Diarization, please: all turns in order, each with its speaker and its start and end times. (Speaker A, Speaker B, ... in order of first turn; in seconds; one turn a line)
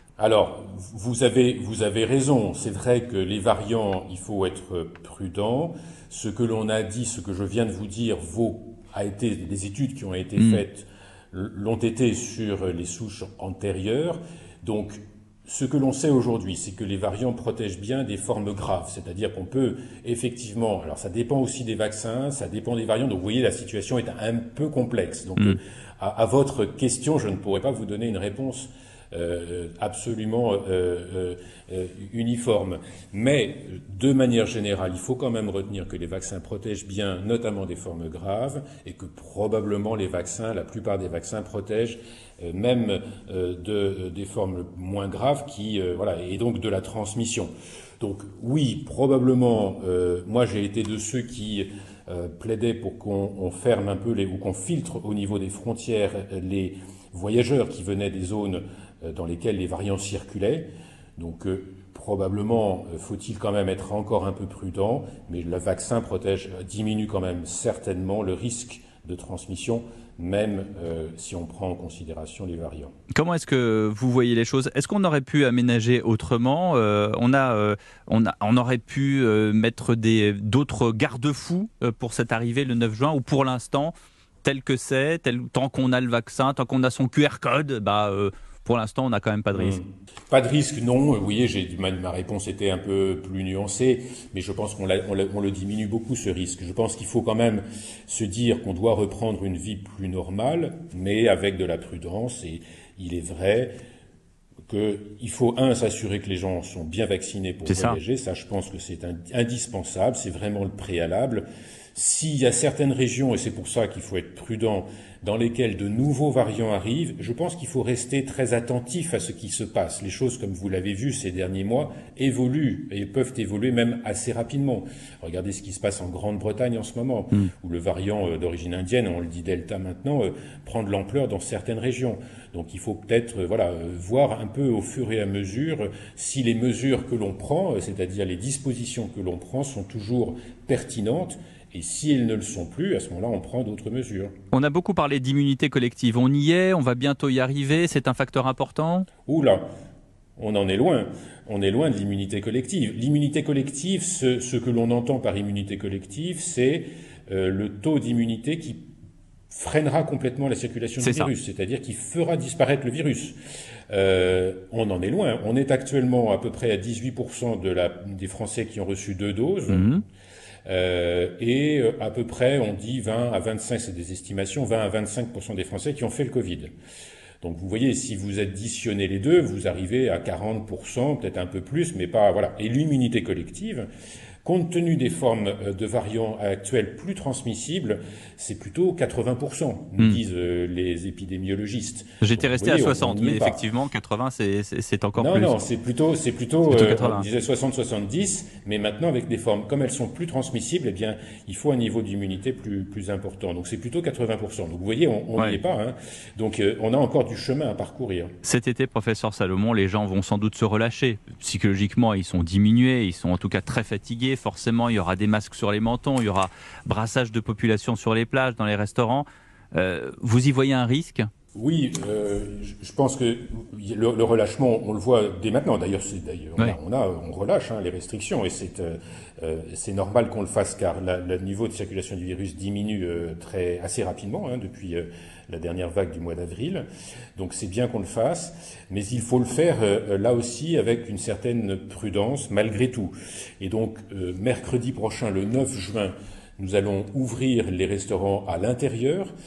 Speaker A: 0.2-72.9
Speaker B: 73.1-83.9
Speaker B: 84.4-89.8
Speaker A: 89.5-103.7
Speaker A: 104.7-144.3
Speaker B: 107.7-108.0
Speaker B: 144.5-149.1
Speaker A: 149.2-149.6
Speaker A: 150.4-158.9
Speaker A: 159.5-163.3
Speaker B: 161.0-161.3
Speaker A: 163.9-169.9
Speaker B: 169.7-170.0
Speaker A: 170.7-176.7
Speaker A: 177.4-183.9
Speaker A: 184.4-193.6
Speaker B: 192.2-195.6
Speaker A: 195.2-208.3
Speaker B: 196.7-197.2
Speaker B: 208.4-221.3
Speaker A: 221.5-236.8
Speaker A: 237.3-249.3